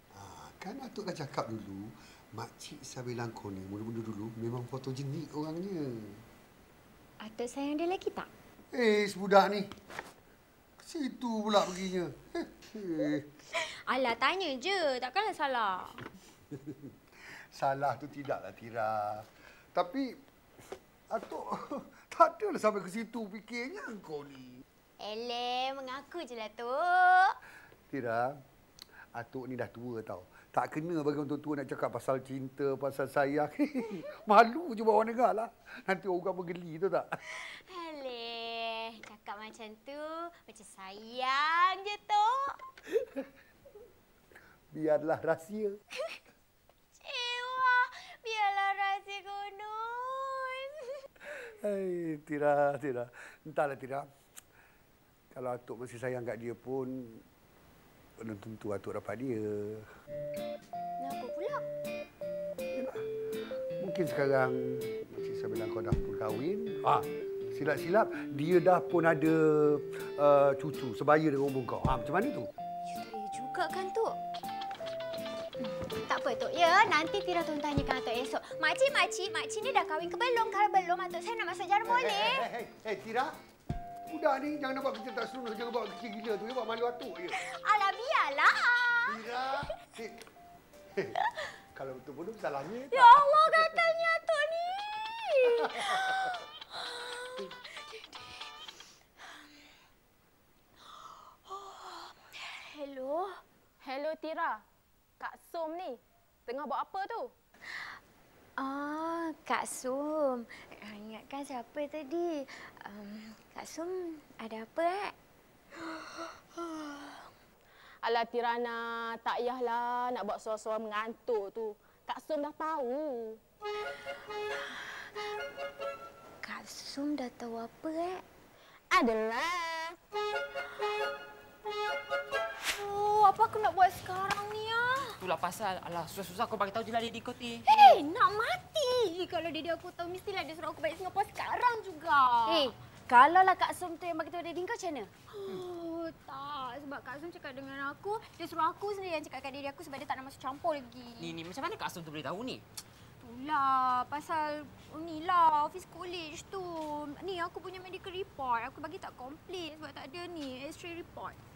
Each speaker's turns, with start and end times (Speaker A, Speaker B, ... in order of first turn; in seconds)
Speaker A: 0.1-6.2, 8.7-9.7, 10.8-13.2, 17.3-20.2, 21.1-24.6, 27.9-28.4, 29.1-37.1, 44.7-45.8, 51.2-54.1, 55.3-57.2, 58.2-59.9, 62.7-63.0, 63.8-72.5, 81.8-83.4, 84.1-87.4, 89.1-90.2, 91.7-94.0, 95.6-96.2
Speaker B: 7.2-8.3, 13.5-16.0, 25.0-27.4, 37.3-42.6, 47.0-51.0, 61.0-61.6, 72.9-74.2, 75.6-82.5, 87.3-89.5, 92.9-98.6, 100.9-103.4, 107.7-108.0, 108.6-115.1, 115.7-117.3, 124.7-125.1, 126.4-128.2, 132.7-135.1, 137.7-142.7, 145.3-151.3, 153.2-161.4
Speaker C: 103.8-104.6, 105.2-107.3, 118.0-123.4
Speaker D: 135.2-137.8, 151.2-152.6
Speaker E: 142.3-145.1